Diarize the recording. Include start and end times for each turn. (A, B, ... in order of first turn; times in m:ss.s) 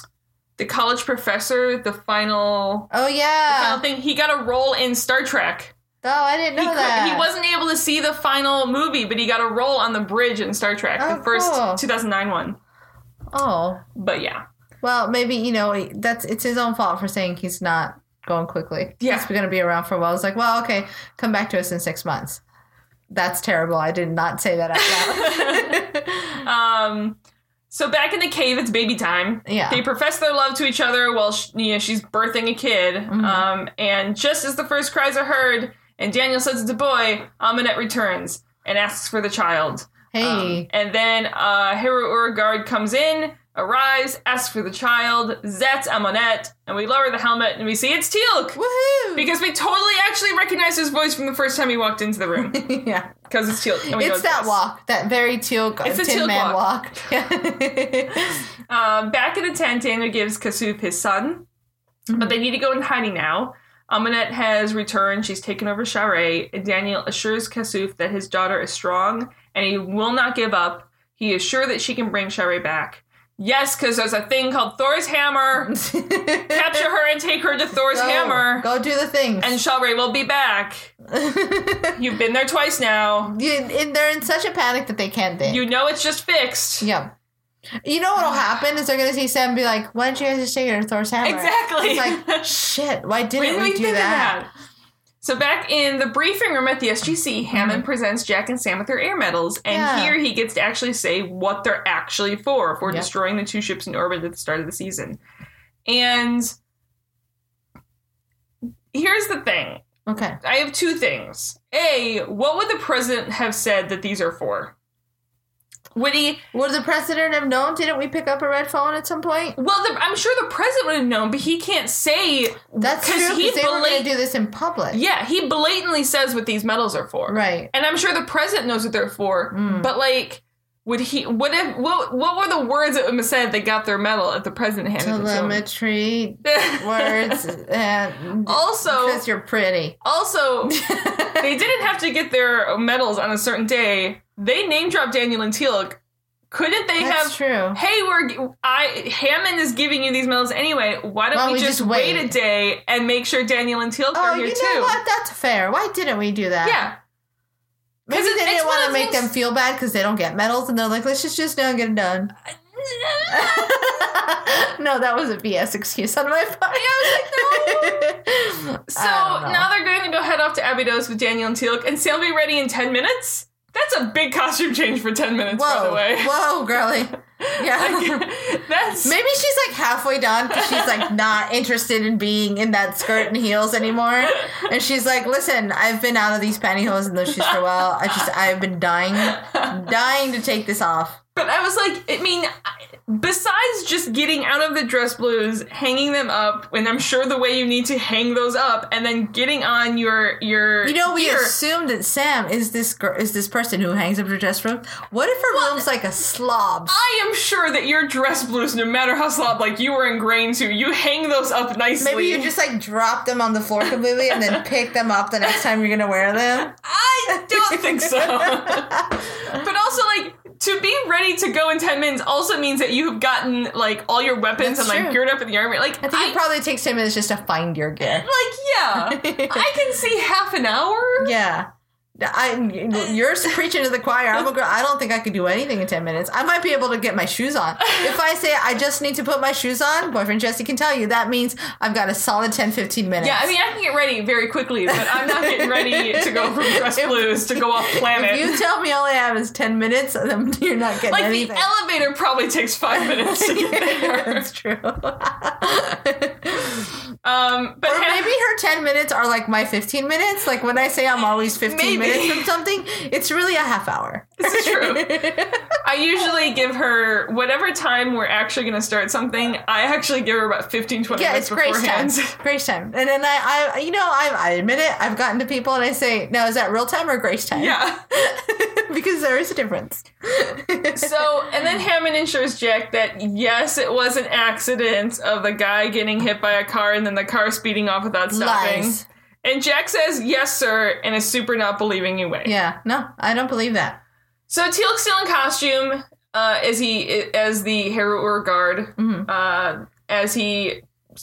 0:00.6-0:02.9 A
0:02.9-0:03.8 B
0:03.5-0:05.7 A
0:06.0-0:07.3 B
0:06.6-0:12.6 A
0:11.0-0:11.8 B
0:13.3-0:13.8 B
0:13.9-0:14.4 A
0:14.8-0:22.4 B
0:19.0-0:19.3 A
0:23.1-0:26.4 B
0:24.8-0:25.8 A
0:26.4-0:27.2 A
0:27.7-0:48.6 A
0:29.5-0:29.8 B
0:33.1-0:33.5 B
0:40.1-0:40.7 B
0:48.6-0:49.3 B
0:49.2-0:52.7 A
0:52.4-0:53.1 B
0:53.2-0:54.6 A
0:53.8-0:58.4 B
0:55.8-0:56.6 A
0:58.7-1:01.5 A
1:02.1-1:02.3 B
1:02.1-1:15.8 A
1:15.7-1:16.9 B
1:16.5-1:18.7 A
1:17.9-1:19.6 B
1:19.4-1:20.9 A
1:21.1-1:22.0 B
1:22.0-1:23.4 A
1:23.3-1:25.6 B
1:25.5-1:26.9 A
1:26.8-1:27.1 B
1:27.8-1:34.4 B
1:31.2-1:32.5 A
1:33.4-1:34.5 A
1:35.2-1:45.2 A
1:37.5-1:37.8 B
1:39.7-1:40.2 B
1:45.9-1:46.6 A
1:48.9-1:49.9 A
1:50.1-1:50.4 B
1:50.4-1:54.8 A
1:55.9-1:56.4 A
1:56.5-1:59.6 B
1:59.6-2:04.1 A
2:02.8-2:05.0 B
2:04.9-2:15.6 A
2:07.3-2:07.7 B
2:09.5-2:09.9 B
2:15.0-2:20.0 B
2:16.4-2:17.4 A
2:18.4-2:19.2 A
2:20.0-2:26.0 A
2:20.7-2:21.5 B
2:26.5-2:35.0 A
2:27.0-2:27.8 B
2:31.3-2:32.4 B
2:34.1-2:36.8 B
2:36.6-2:37.0 A
2:38.1-2:42.3 B
2:38.1-2:39.3 A
2:42.8-2:44.2 A
2:43.3-2:49.7 B
2:46.7-2:48.2 A
2:48.9-2:56.4 A
2:55.5-2:58.3 B
2:57.4-2:59.2 A
2:59.0-3:11.2 B
3:00.5-3:01.1 A
3:09.2-3:09.8 A
3:11.4-3:12.5 A
3:13.1-3:21.6 A
3:20.8-3:27.0 B
3:25.5-3:25.8 A
3:26.9-3:32.5 A
3:32.0-3:36.8 B
3:36.7-3:46.4 A
3:37.3-3:39.6 B
3:44.6-3:45.2 B
3:46.0-3:48.3 B
3:48.1-3:51.3 A
3:49.0-3:49.7 B
3:51.2-4:03.5 B
4:03.2-4:08.6 A
4:04.9-4:11.7 B
4:11.1-4:14.5 A
4:12.9-4:16.9 B
4:17.2-4:18.3 A
4:17.9-4:25.6 B
4:21.6-4:22.5 A
4:24.4-4:32.4 A
4:31.1-4:41.3 B
4:37.5-4:38.0 A
4:40.9-4:52.5 A
4:48.3-4:49.0 B
4:52.4-4:54.0 B
4:54.5-5:00.8 A
4:59.0-4:59.3 B